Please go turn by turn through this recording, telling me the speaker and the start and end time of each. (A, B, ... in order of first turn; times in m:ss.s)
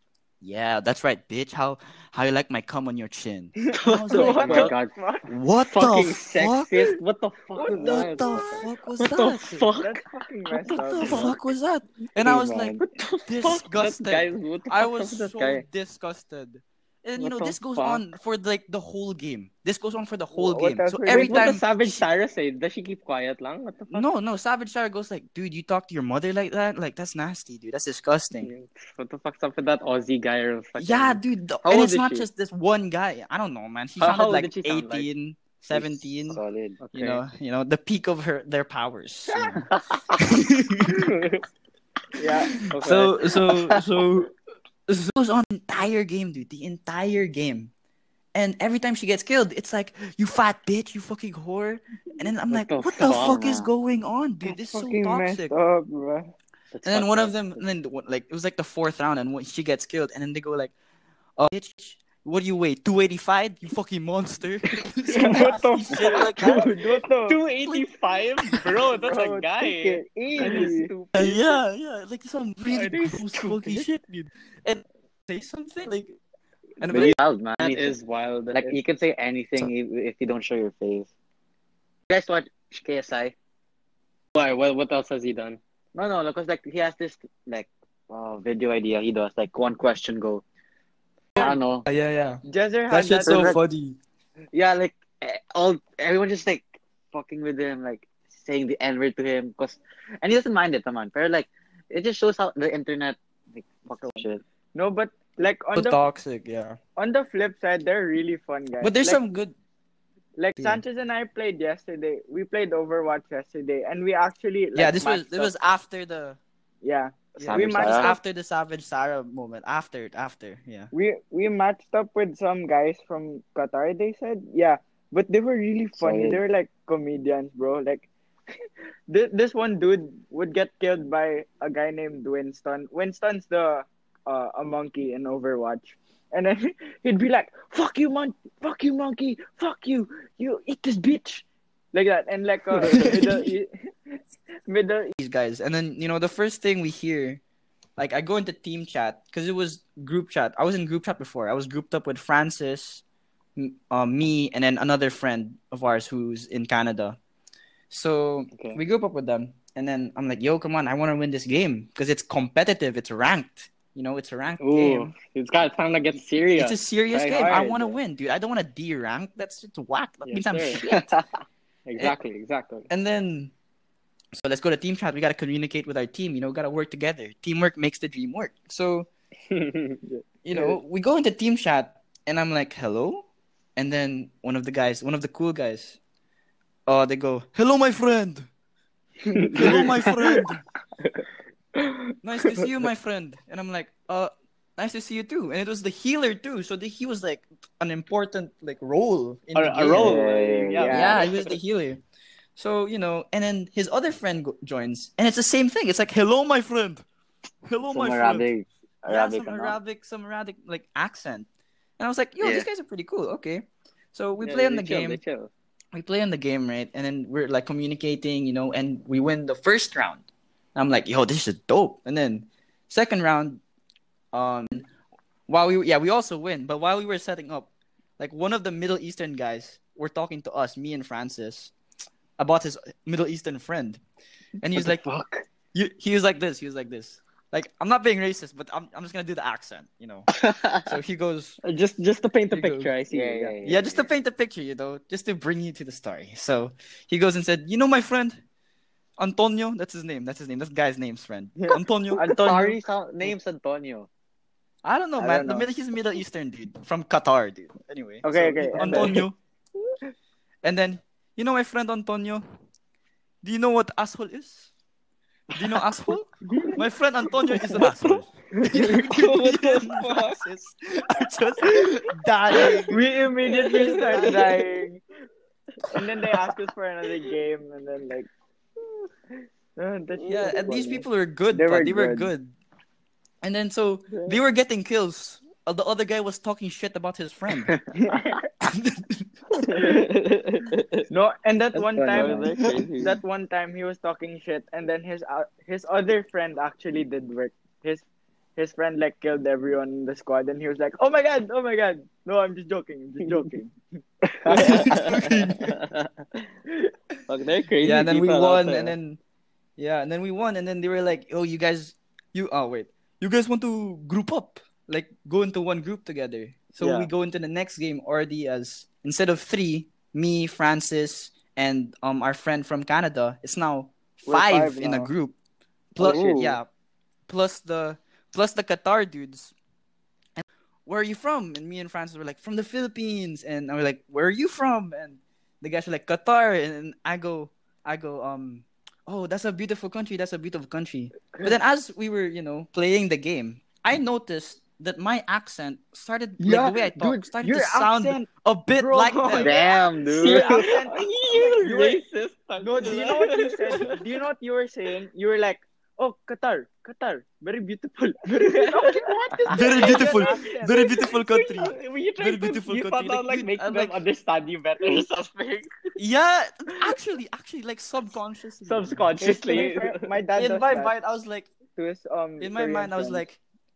0:00.4-0:06.8 A
0:03.7-0:04.7 B
0:04.1-0:05.3 C
0:04.1-0:04.9 D
0:05.6-0:11.4 D
0:07.6-0:08.6 C
0:07.6-0:09.7 A
0:09.8-0:11.4 C
0:10.7-0:22.0 A
0:12.2-0:12.8 B
0:12.8-0:15.6 D
0:17.2-0:18.0 D
0:20.3-0:21.5 C
0:21.1-0:24.1 D
0:23.9-0:28.5 A
0:28.4-0:32.3 D
0:30.8-0:36.4 A
0:34.0-0:35.1 D
0:35.7-0:36.8 B
0:36.8-0:37.2 D
0:36.9-0:41.2 A
0:40.9-0:41.4 D
0:42.2-0:42.6 C
0:42.5-0:44.3 A
0:42.5-0:43.2 D
0:44.9-0:47.7 A
0:48.3-0:55.5 A
0:52.5-0:53.7 B
0:53.0-0:53.4 D
0:54.4-0:56.3 C
0:56.7-0:57.6 B
0:56.8-1:00.7 A
1:01.4-1:06.7 A
1:05.1-1:07.4 C
1:05.2-1:05.5 D
1:07.3-1:11.6 D
1:08.4-1:08.8 A
1:08.9-1:10.9 C
1:10.4-1:16.2 A
1:12.7-1:13.9 D
1:16.8-1:17.2 A
1:16.9-1:18.0 B
1:16.9-1:18.7 D
1:18.5-1:21.1 B
1:22.1-1:23.3 B
1:24.3-1:25.6 D
1:25.9-1:30.4 B
1:31.4-1:31.9 B
1:31.4-1:34.0 A
1:32.4-1:33.6 C
1:33.2-1:33.6 B
1:34.5-1:44.4 B
1:44.7-1:46.0 C
1:45.7-1:46.8 A
1:47.0-1:49.2 C
1:48.8-1:49.6 A
1:50.4-1:55.5 C
1:50.6-1:50.8 A
1:54.7-1:56.4 A
1:56.8-1:58.2 C
1:57.4-2:00.9 A
1:57.4-1:58.1 B
2:00.9-2:08.1 C
2:06.0-2:06.4 B
2:09.1-2:25.2 C
2:22.8-2:23.2 D
2:25.2-2:27.4 A
2:28.0-2:33.0 A
2:33.6-2:37.2 A
2:37.9-2:45.1 A
2:44.6-2:47.7 D
2:46.6-2:51.1 A
2:47.3-2:48.0 C
2:50.3-2:50.9 D
2:50.8-2:51.3 B
2:51.9-2:52.9 D
2:52.9-2:53.5 A
2:54.3-2:59.1 A
2:59.5-3:00.0 D
3:00.0-3:00.8 C
3:00.4-3:06.0 A
3:06.9-3:08.5 A
3:09.3-3:09.9 C
3:09.3-3:10.4 D
3:09.5-3:10.6 A
3:11.8-3:12.7 D
3:12.2-3:20.2 A
3:19.6-3:21.5 D
3:19.9-3:21.2 B
3:20.8-3:21.2 C
3:20.9-3:22.0 A
3:22.6-3:27.0 A
3:27.6-3:28.5 A
3:27.8-3:29.8 B
3:29.1-3:31.5 A
3:32.0-3:35.2 A
3:32.4-3:32.7 B
3:34.4-3:35.5 D
3:35.9-3:40.2 A
3:40.8-3:43.6 A
3:44.3-3:44.9 A
3:45.5-3:51.7 A
3:52.4-3:54.0 A
3:54.6-3:55.0 A
3:54.7-3:55.4 B
3:55.7-4:00.3 A
4:00.3-4:00.9 B
4:00.8-4:01.6 A
4:01.6-4:03.6 D
4:02.5-4:02.9 A
4:03.1-4:04.1 B
4:03.6-4:08.4 A
4:09.2-4:12.2 A
4:11.6-4:12.8 C
4:12.2-4:14.1 B
4:14.8-4:19.4 A
4:15.2-4:15.7 C
4:18.2-4:19.2 C
4:18.3-4:19.2 D
4:20.6-4:22.4 A
4:23.4-4:24.7 A
4:25.5-4:33.0 A
4:26.5-4:26.8 C
4:27.7-4:30.4 D
4:32.6-4:32.8 D
4:32.6-4:35.0 C
4:33.4-4:34.6 D
4:33.6-4:34.6 A
4:35.9-4:38.3 C
4:39.8-4:42.3 C
4:40.3-4:42.5 A
4:43.4-4:47.7 A
4:48.0-4:48.3 C
4:48.6-4:49.3 A
4:49.6-4:51.0 D
4:51.1-4:58.0 C
4:51.8-4:53.1 D
4:51.9-4:53.1 B
4:58.6-5:03.8 C
5:04.4-5:05.4 C
5:04.5-5:06.1 D
5:04.5-5:05.8 A
5:07.3-5:08.9 D
5:07.8-5:09.2 A
5:09.8-5:25.3 A
5:24.3-5:25.1 C
5:25.9-5:26.7 A
5:26.0-5:26.6 B
5:27.3-5:29.5 A
5:30.4-5:49.5 A
5:46.4-5:52.0 C
5:49.3-5:50.5 B
5:50.2-5:54.0 D
5:52.6-6:00.8 C
5:58.4-6:05.7 D
5:59.5-6:04.0 A
6:06.0-6:09.0 A
6:08.6-6:10.1 D
6:09.2-6:10.9 C
6:10.4-6:11.5 A
6:11.7-6:13.2 C
6:12.4-6:13.4 A